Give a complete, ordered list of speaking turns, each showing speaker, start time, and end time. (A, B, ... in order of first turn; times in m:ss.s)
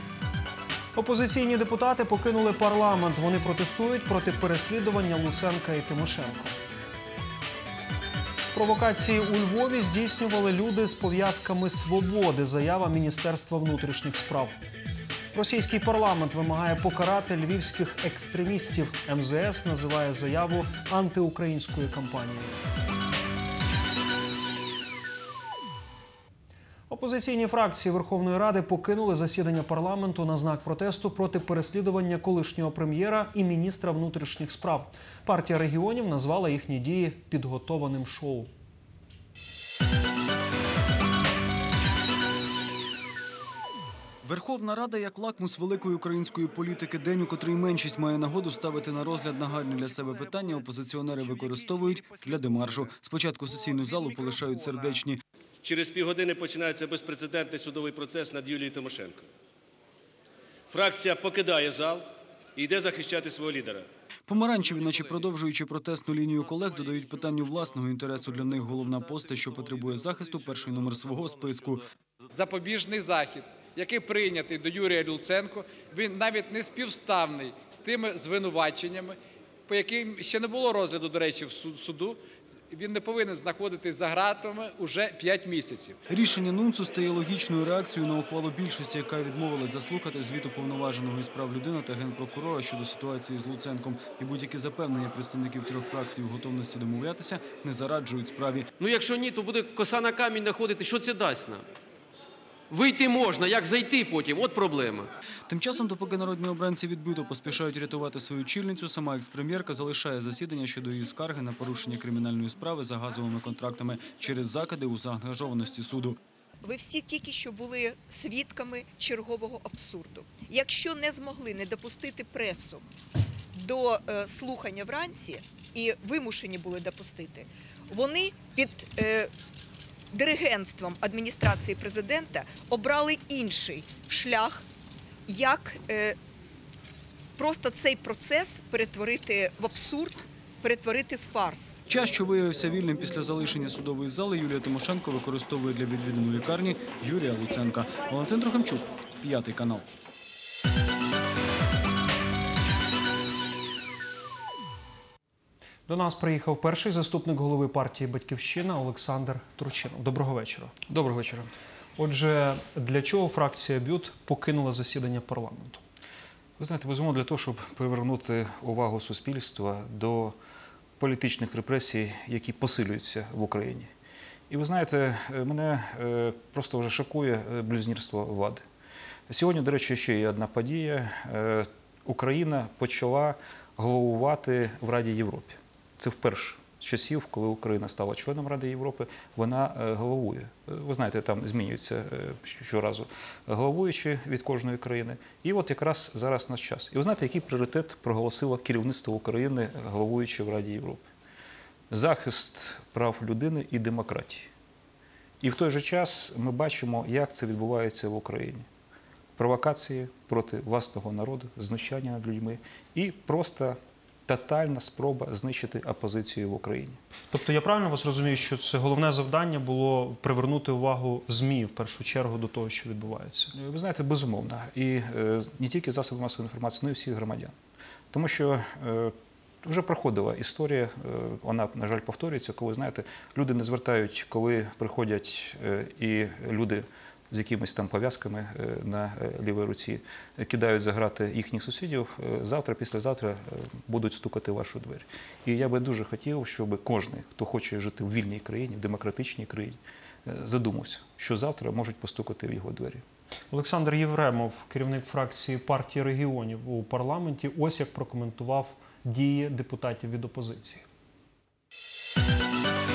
0:01.0-0:06.6 A
0:08.5-0:14.6 A
0:15.3-0:22.6 A
0:26.9-0:38.5 A
0:44.2-0:55.2 B
0:55.6-0:59.3 C
1:00.7-1:03.9 C
1:04.3-1:11.9 B
1:12.3-1:22.2 D
1:22.7-1:26.0 D
1:26.1-1:38.7 B
1:38.8-1:41.7 E
1:42.7-1:45.1 E
1:45.5-1:56.2 B
1:56.6-2:02.8 F
2:03.5-2:09.3 F
2:10.1-2:14.6 F
2:15.3-2:16.2 F
2:17.4-2:21.8 F
2:21.9-2:29.9 B
2:35.9-2:40.7 A
2:40.9-2:41.5 G
2:42.0-2:45.8 A
2:46.6-2:50.4 G
2:51.0-2:53.9 G
2:54.5-2:58.6 G
2:59.3-3:21.1 G
3:21.9-3:24.5 G
3:25.4-3:28.7 G
3:29.4-3:37.0 G
3:37.3-3:43.5 A
3:43.5-3:47.5 G
3:48.1-4:13.0 G
4:13.5-4:20.8 A